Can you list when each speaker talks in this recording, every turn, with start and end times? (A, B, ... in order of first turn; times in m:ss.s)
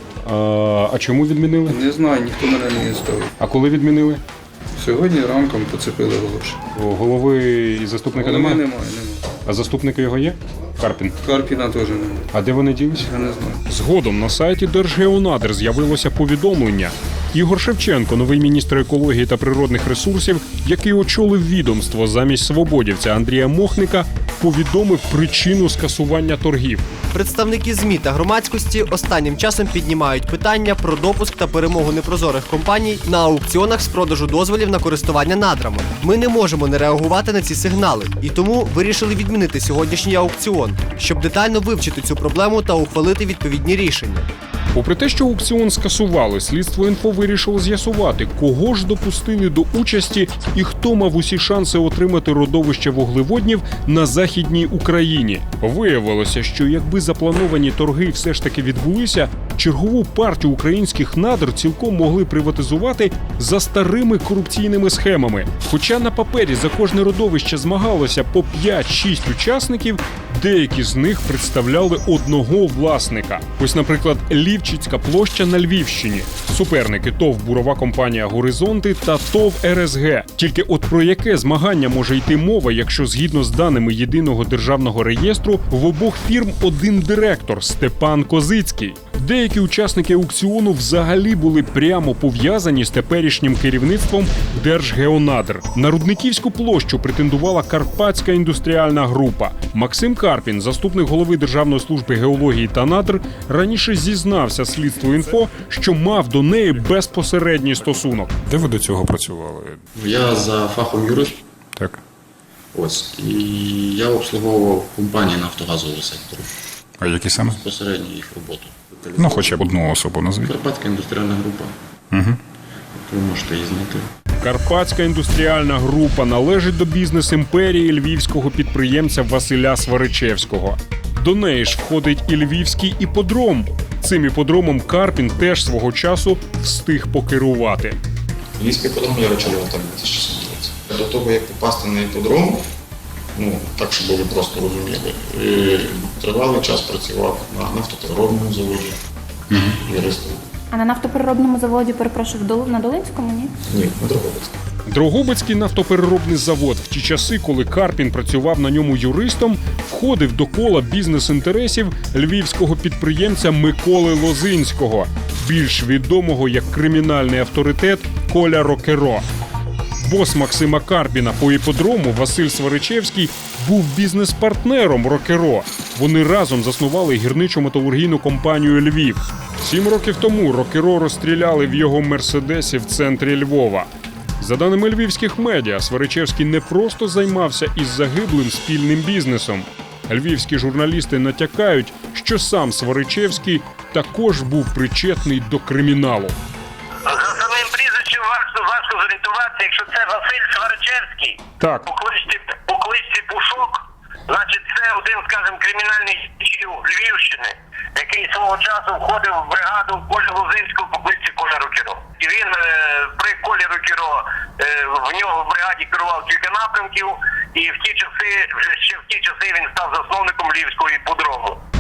0:00.2-0:01.8 A
0:01.7-0:03.3 B
0:03.4-0:04.2 A
0:04.8-0:06.6 B
0:06.8-0:08.6 A
0:08.2-0:09.3 B
0:09.4-0:11.2 A
0:11.2-0:12.3 B
0:12.3-0:13.1 A
0:13.0-0:13.6 B
0:13.7-0:26.9 A
0:27.1-0:44.3 C
0:44.7-1:48.4 A
1:48.5-1:49.4 D
1:50.0-1:51.4 E
1:52.7-1:56.5 E
1:57.0-1:57.6 D
1:57.5-1:59.7 E
1:59.2-2:00.5 D
2:00.4-2:01.7 E
2:02.1-2:02.4 D
2:02.9-2:04.1 E
2:04.4-2:18.0 A
2:18.6-2:22.6 E
2:23.4-2:29.0 E
2:29.8-2:30.4 E
2:30.7-2:33.5 F
2:33.7-2:34.5 E
2:34.9-2:49.3 A
2:50.0-3:03.9 A
3:04.4-3:16.4 A
3:17.1-3:21.4 G
3:21.6-3:21.9 A
3:21.9-3:23.8 G
3:24.3-3:34.1 G
3:34.9-3:41.6 G